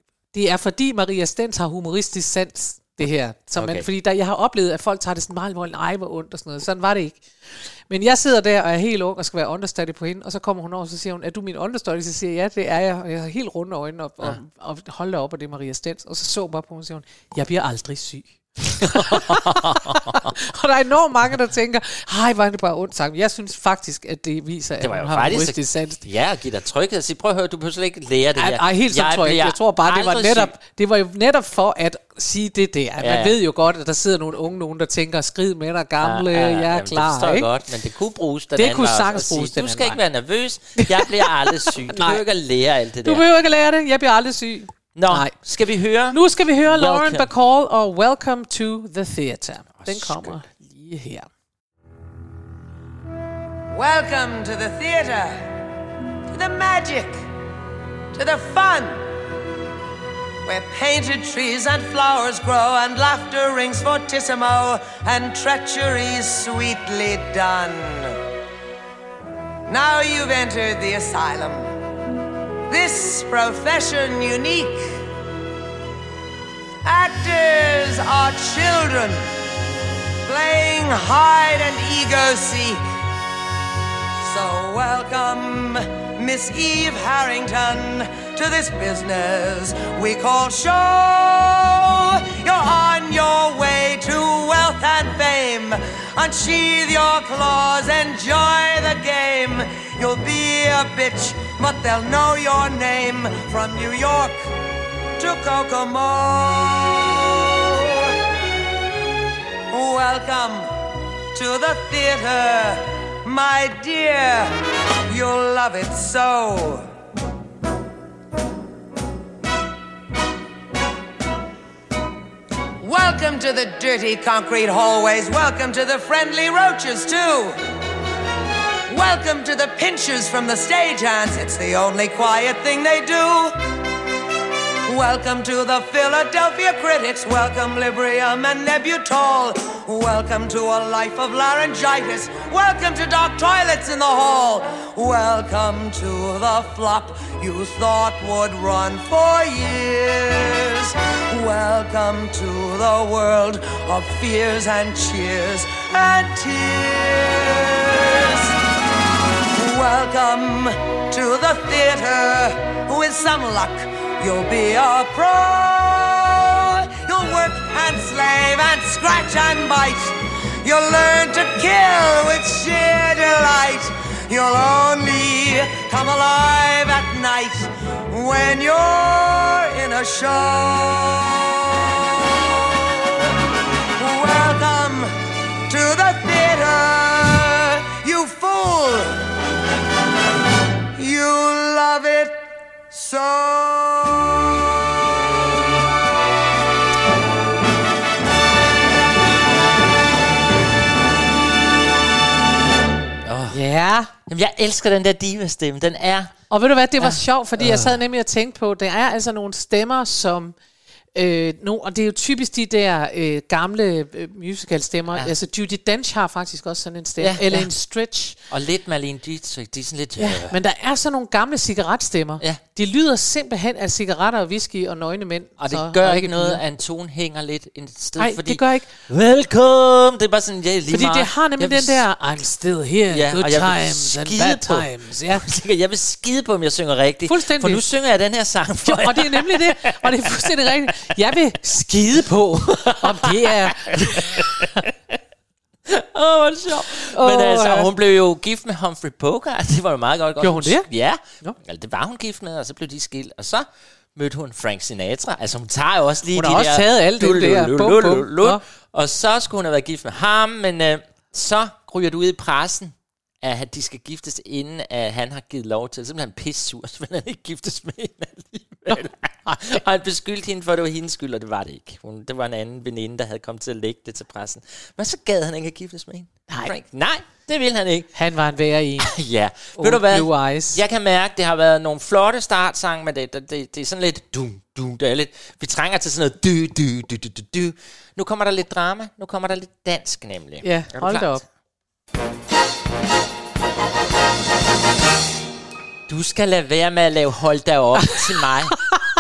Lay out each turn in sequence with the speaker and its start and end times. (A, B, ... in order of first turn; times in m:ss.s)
0:00.3-0:26.0 A
0:03.6-0:03.8 B
0:18.9-0:20.2 B
0:24.8-0:30.5 B
0:28.4-0:37.5 A
0:33.0-0:33.4 B
0:36.0-0:43.2 B
0:38.6-0:40.0 A
0:40.8-0:42.2 A
0:43.0-0:45.4 A
0:44.9-0:47.3 B
0:46.1-0:51.3 A
0:49.8-0:50.4 B
0:53.7-0:55.5 C
0:56.3-0:57.2 C
0:58.1-0:59.0 C
1:00.4-1:08.2 C
1:09.7-1:11.7 C
1:12.7-1:15.0 C
1:16.8-1:19.3 C
1:20.3-1:22.8 C
1:24.2-1:44.4 C
1:45.2-1:48.1 C
1:49.7-1:50.7 C
1:51.3-1:54.6 C
1:55.1-1:56.9 C
2:02.8-2:07.6 C
2:08.9-2:13.6 C
2:14.9-2:38.5 C
2:39.5-3:01.9 C
3:04.0-3:05.1 C
3:05.7-3:09.2 C
3:11.0-3:12.4 C
3:12.9-3:14.4 C
3:23.3-3:23.6 B
3:23.5-3:24.1 A
3:24.3-3:26.3 B
3:26.5-3:30.6 A
3:27.0-3:28.0 B
3:31.1-3:38.4 A
3:37.2-3:37.7 B
3:38.5-3:40.6 B
3:40.2-3:46.6 A
3:45.6-3:52.0 B
3:48.2-3:48.9 A
3:50.9-3:55.4 A
3:53.1-4:00.5 B
3:57.3-3:57.8 A
3:58.9-4:04.6 A
4:04.2-4:04.6 B
4:05.9-4:38.1 B
4:07.1-4:07.9 A
4:10.4-4:10.9 A
4:16.3-4:18.6 A
4:38.1-4:39.1 A
4:39.0-4:51.4 B
4:39.8-4:40.8 A
4:50.6-4:51.4 A
4:56.1-4:58.8 B